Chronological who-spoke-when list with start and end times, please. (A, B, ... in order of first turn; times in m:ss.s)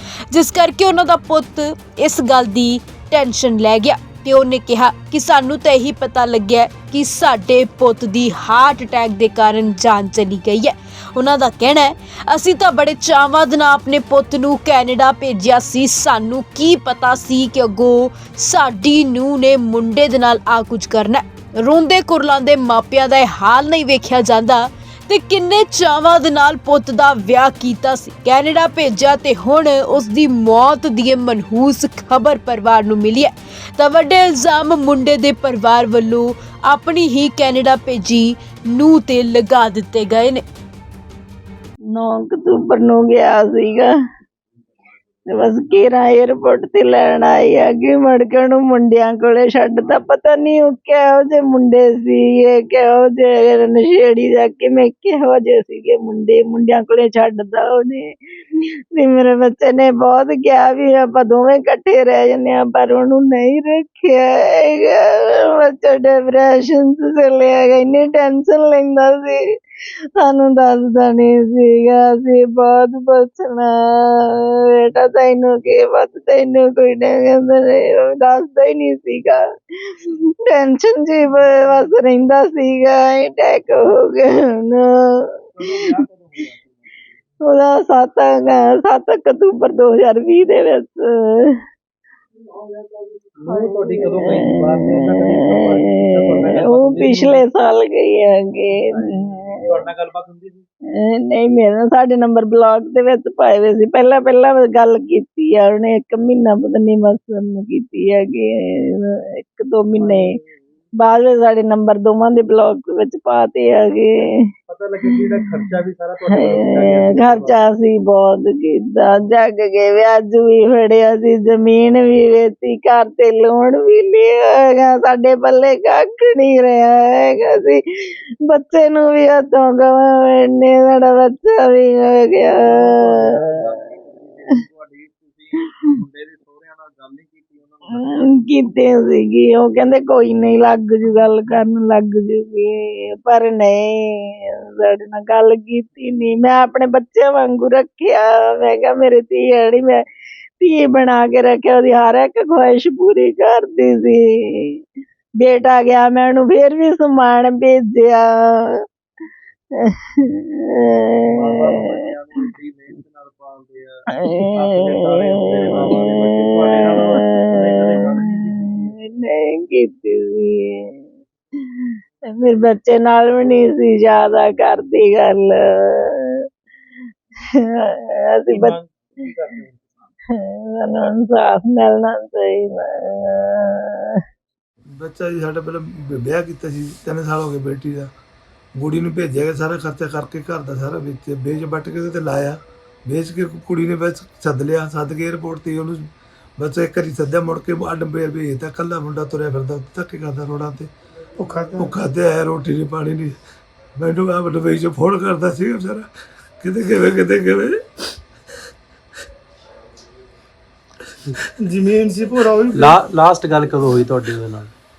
0:00.3-0:40.4 A
0:41.9-0:43.9 B
0:45.3-0:58.0 B
0:58.5-1:09.4 B
1:10.2-1:25.9 B
1:25.6-1:26.9 C
1:27.4-1:31.6 B
1:32.7-1:37.5 C
1:33.5-1:39.9 B
1:38.8-1:40.6 C
1:40.9-1:50.3 B
1:49.9-1:51.2 C
1:51.0-1:54.3 B
1:54.7-1:57.6 C
1:55.0-2:13.4 B
2:12.5-2:18.4 C
2:18.1-2:30.0 B
2:30.6-2:34.8 B
2:35.4-2:38.7 B
2:39.8-2:41.9 B
2:41.3-2:48.6 C
2:44.2-2:44.9 B
2:45.6-2:51.0 B
2:52.3-2:56.4 B
2:57.5-2:58.8 B
2:58.5-3:00.0 C
3:00.3-3:04.2 B
3:05.0-3:08.1 D
3:08.8-3:20.9 D
3:21.4-3:21.9 E
3:21.8-3:23.4 D
3:24.0-3:26.1 D
3:26.6-3:27.8 D
3:31.6-3:33.0 E
3:32.7-3:34.7 F